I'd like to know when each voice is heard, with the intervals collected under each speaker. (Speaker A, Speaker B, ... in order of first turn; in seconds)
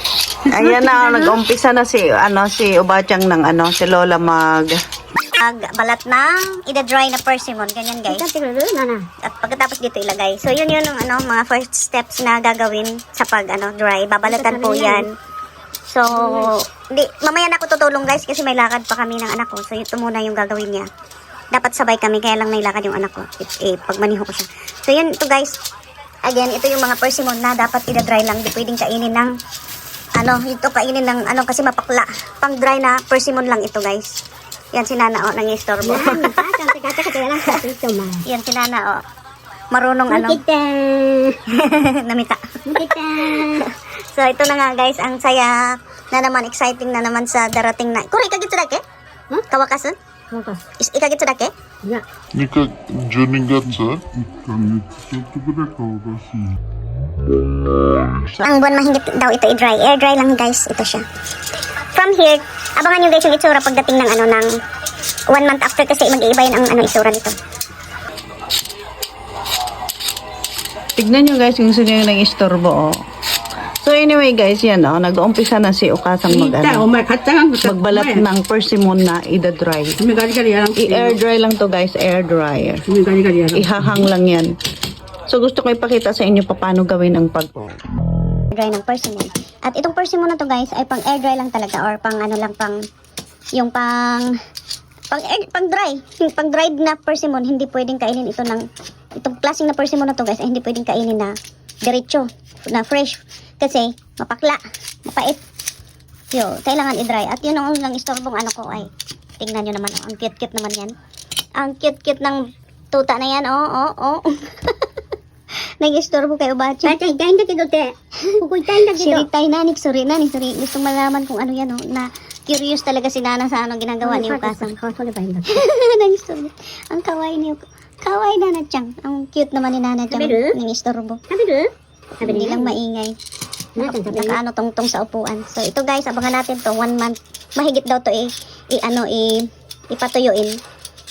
Speaker A: 0.5-1.4, 76.3-78.2, 80.0-81.2, 82.9-84.1
Speaker B: 0.5-4.7, 71.0-72.9, 73.8-76.8, 77.6-80.0, 80.8-82.9, 83.5-84.5, 85.3-87.8
Speaker C: 5.4-8.2, 9.2-15.1, 15.9-20.9, 21.5-25.6, 26.3-29.3, 30.2-34.1, 34.8-36.5, 37.0-37.6, 38.3-39.0, 39.7-40.4, 41.5-48.8, 49.5-50.0, 50.8-51.5, 58.4-61.0, 61.9-64.5, 65.3-67.3, 88.5-92.8, 93.6-94.3, 95.1-98.6, 99.2-101.3, 101.8-105.4, 106.3-110.9, 111.6-112.4, 112.9-114.9, 115.8-117.0, 118.9-124.8, 125.5-131.2, 132.2-133.1, 133.8-140.6
Speaker D: 8.1-9.0, 14.3-15.1, 16.1-16.5, 35.8-38.2, 40.1-41.4, 42.7-43.6, 50.3-50.6, 116.8-119.3, 124.0-125.7, 130.1-130.5, 131.3-131.7, 132.2-132.8, 133.8-134.4
Speaker E: 52.3-56.6